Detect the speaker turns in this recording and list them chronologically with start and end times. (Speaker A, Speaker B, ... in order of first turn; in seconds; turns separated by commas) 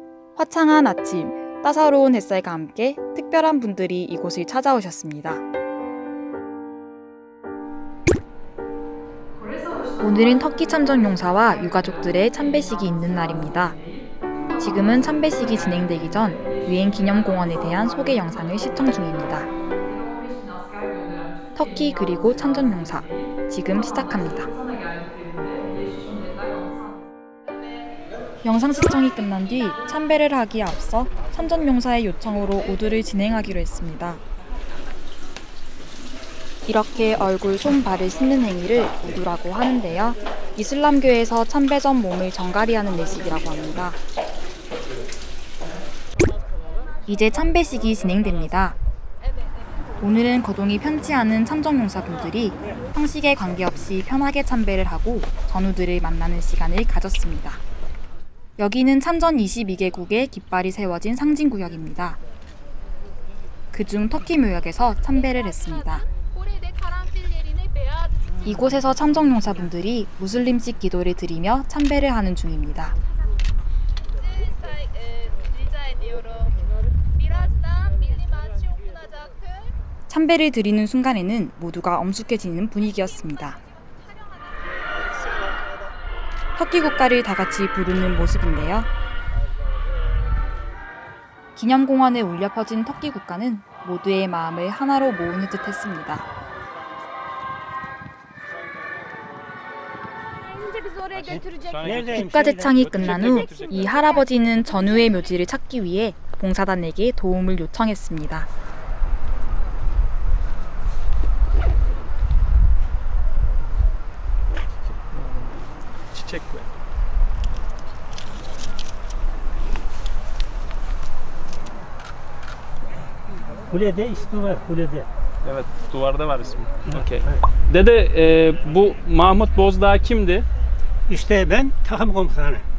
Speaker A: 0.3-5.4, Speaker A: 10.0-13.8, Speaker A: 14.6-19.5, Speaker A: 21.5-24.5, Speaker A: 28.4-34.2, Speaker A: 36.7-44.0, Speaker A: 47.1-48.8, Speaker A: 50.0-57.6, Speaker A: 58.6-62.2, Speaker A: 63.7-66.0, Speaker A: 68.4-72.9, Speaker A: 80.1-83.6, Speaker A: 86.5-88.9, Speaker A: 91.5-96.2, Speaker B: 101.1-104.1, Speaker C: 101.2-102.8, Speaker A: 102.1-108.5, Speaker B: 115.1-116.6, Speaker C: 123.7-125.1, Speaker B: 125.4-130.4, Speaker C: 126.9-127.4, Speaker C: 131.1-132.6